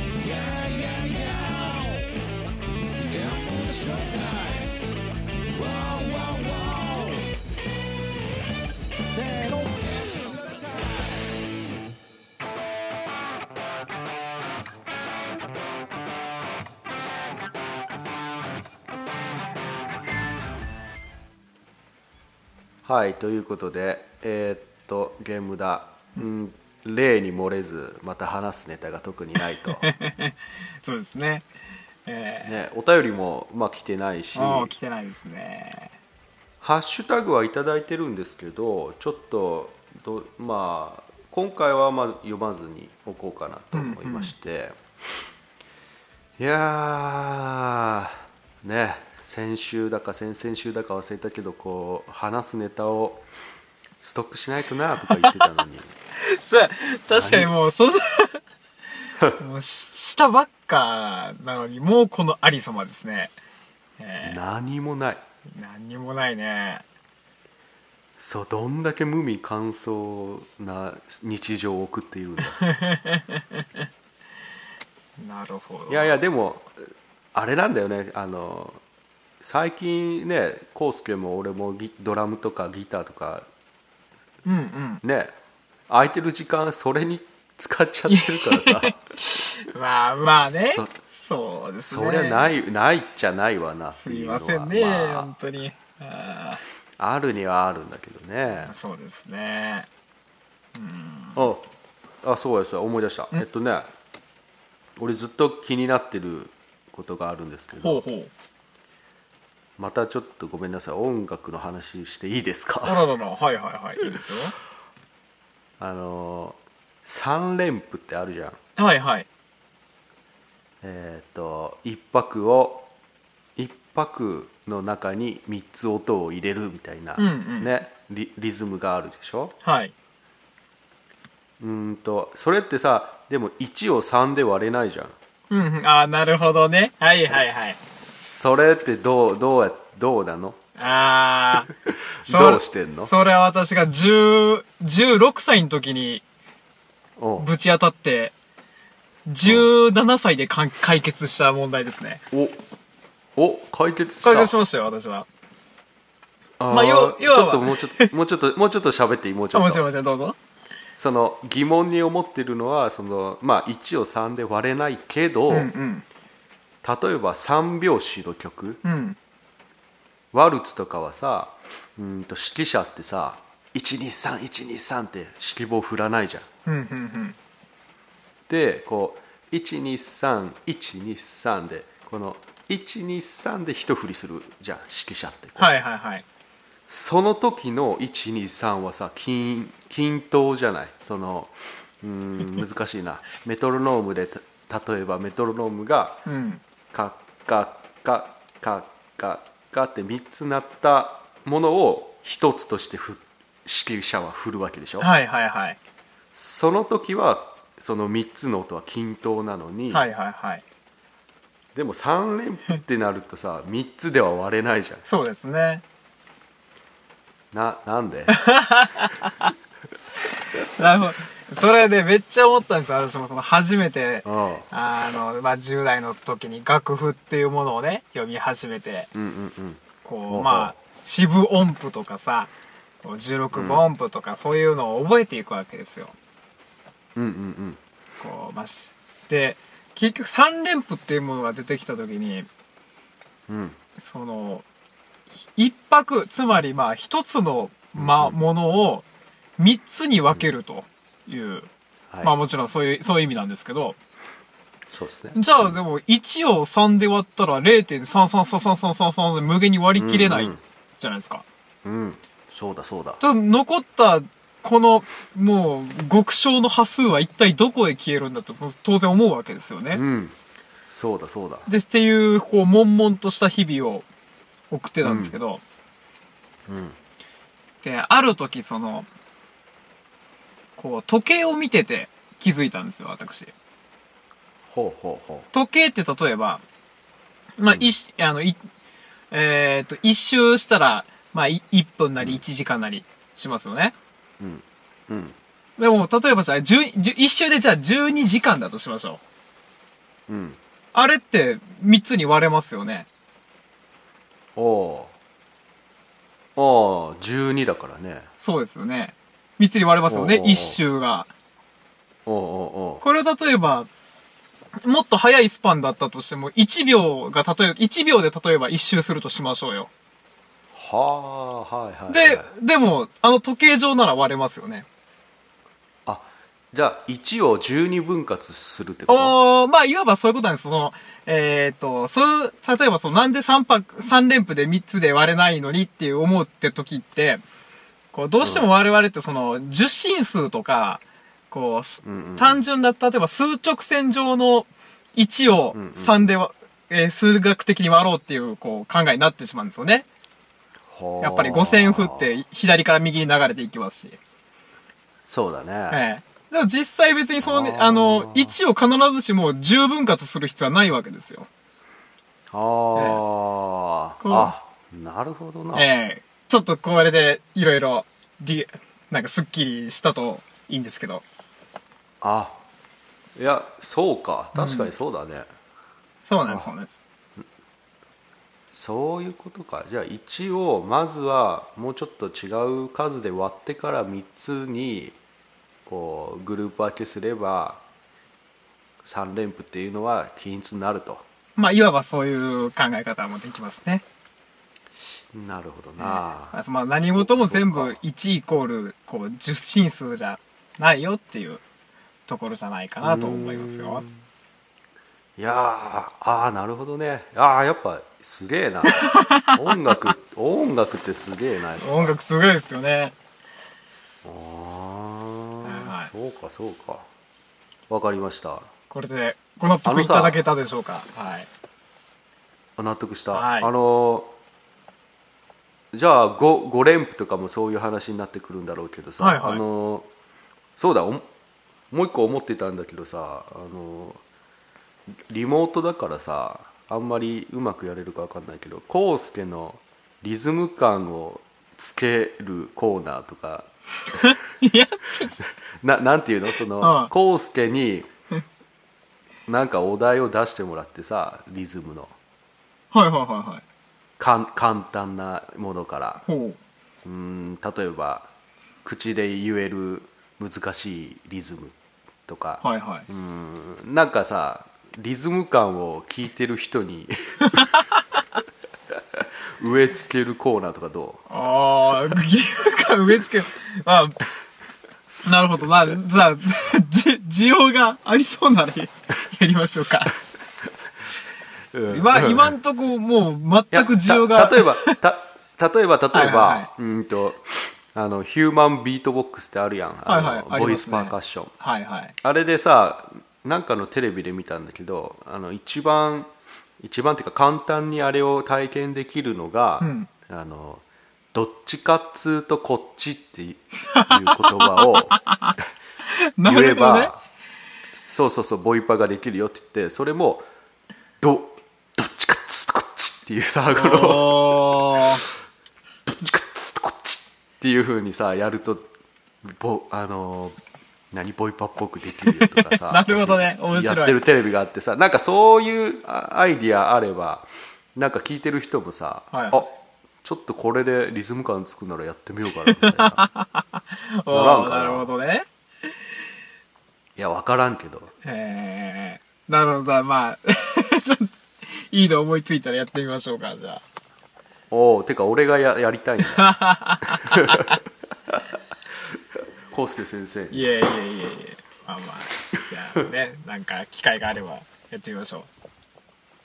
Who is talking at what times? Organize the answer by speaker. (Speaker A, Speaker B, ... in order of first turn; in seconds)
Speaker A: 22.9-29.9, 32.4-34.7, 36.6-44.8, 46.4-53.3, 54.0-55.9, 57.1-57.6, 64.2-65.2, 68.2-72.6, 75.9-78.8, 79.4-83.5, 85.0-85.3, 85.9-89.0, 90.4-91.0, 91.9-95.3, 97.0-98.7, 101.4-101.6, 102.2-103.9, 105.0-108.0, 109.8-113.0, 115.8-118.6, 120.8-122.9, 123.6-129.5, 131.6-135.2, 138.0-140.6, 142.2-143.1, 147.2-147.5, 149.4-149.7, 152.3-152.6, 153.4-154.6, 156.6-159.8, 161.0-165.7, 166.8-168.8, 170.3-176.5, 178.5-185.7, 186.9-196.2, 196.9-205.1, 206.3-210.1, 211.8-215.1, 217.5-218.4, 224.2-224.7, 229.1-230.7, 233.5-233.8, 237.2-237.8, 243.5-243.8, 247.9-248.4, 254.9-255.8, 260.0-260.6, 261.9-263.2, 269.9-271.7, 275.0-275.4, 276.7-277.0, 284.7-285.5, 294.4-295.4, 300.3-300.6, 304.6-305.1, 306.6-308.3, 310.1-310.8, 312.3-313.0, 320.7-322.5, 326.1-329.4, 338.4-338.7, 342.0-342.6, 345.7-346.3, 350.9-352.2, 355.3-356.0, 357.4-358.6, 362.5-365.9, 372.2-372.6, 373.4-375.5, 376.4-376.7, 378.7-385.2, 385.9-387.8, 389.0-391.2, 395.3-398.0, 403.0-404.3, 405.4-412.1, 414.2-417.1, 417.9-418.7, 419.8-420.4, 422.8-424.3, 425.9-430.1, 430.8-431.3, 431.9-434.2, 435.3-444.3, 445.4-448.1, 449.5-452.1, 454.2-456.2, 457.1-458.3, 458.8-461.8, 462.3-467.7, 469.2-471.2, 481.7-482.5, 483.7-491.5, 492.2-505.2, 506.4-507.2, 508.1-510.5, 511.2-514.9, 516.1-518.9, 519.4-520.6, 521.1-529.7, 530.2-533.3, 534.3-535.1, 537.2-538.1, 544.7-546.6, 547.4-547.7, 549.7-550.7
Speaker B: 29.8-31.5, 32.1-32.6, 34.4-36.0, 43.7-44.3, 55.1-55.5, 56.2-58.4, 59.4-63.3, 64.0-64.4, 65.5-66.8, 72.5-73.7, 75.2-76.2, 84.5-85.0, 88.1-92.5, 94.0-96.6, 98.7-99.9, 100.8-101.5, 107.8-108.3, 112.8-114.5, 118.8-119.3, 127.2-127.7, 129.6-129.9, 135.5-137.8, 140.8-141.7, 142.3-146.2, 147.4-148.3, 149.3-152.2, 154.2-155.3, 156.7-158.1, 159.5-160.4, 165.5-166.1, 168.8-169.2, 176.7-177.4, 185.6-186.2, 196.3-196.6, 205.0-205.8, 209.9-210.6, 215.1-215.8, 218.3-219.5, 220.6-229.1, 230.0-232.5, 233.0-236.1, 238.2-242.5, 244.0-244.7, 245.4-249.1, 249.6-251.7, 252.2-254.0, 255.3-261.4, 263.2-270.0, 271.7-274.1, 274.7-275.6, 277.8-279.1, 280.8-283.5, 285.5-286.6, 287.6-288.6, 289.3-293.9, 295.8-299.2, 300.9-303.1, 308.4-311.3, 313.0-313.9, 314.8-319.9, 322.1-324.9, 329.1-337.4, 338.1-350.1, 351.2-354.2, 355.9-361.5, 362.9-363.2, 364.2-364.5, 365.7-371.2, 374.6-374.9, 376.3-377.0, 391.6-394.1, 396.0-401.6, 402.3-404.1, 408.9-409.9, 411.8-413.1, 415.6-416.1, 418.9-421.5, 423.3-423.7, 429.2-429.6, 444.2-445.3, 446.8-447.1, 452.9-453.6, 456.2-456.6, 462.6-463.1, 467.4-467.7, 471.3-474.2, 475.2-480.1, 481.9-485.0, 486.1-486.7, 490.1-492.2, 499.8-500.1, 505.1-505.5, 506.4-507.1, 513.8-515.2, 522.4-524.2, 529.3-529.7, 532.7-535.5, 538.2-543.8, 546.3-547.7, 550.5-555.5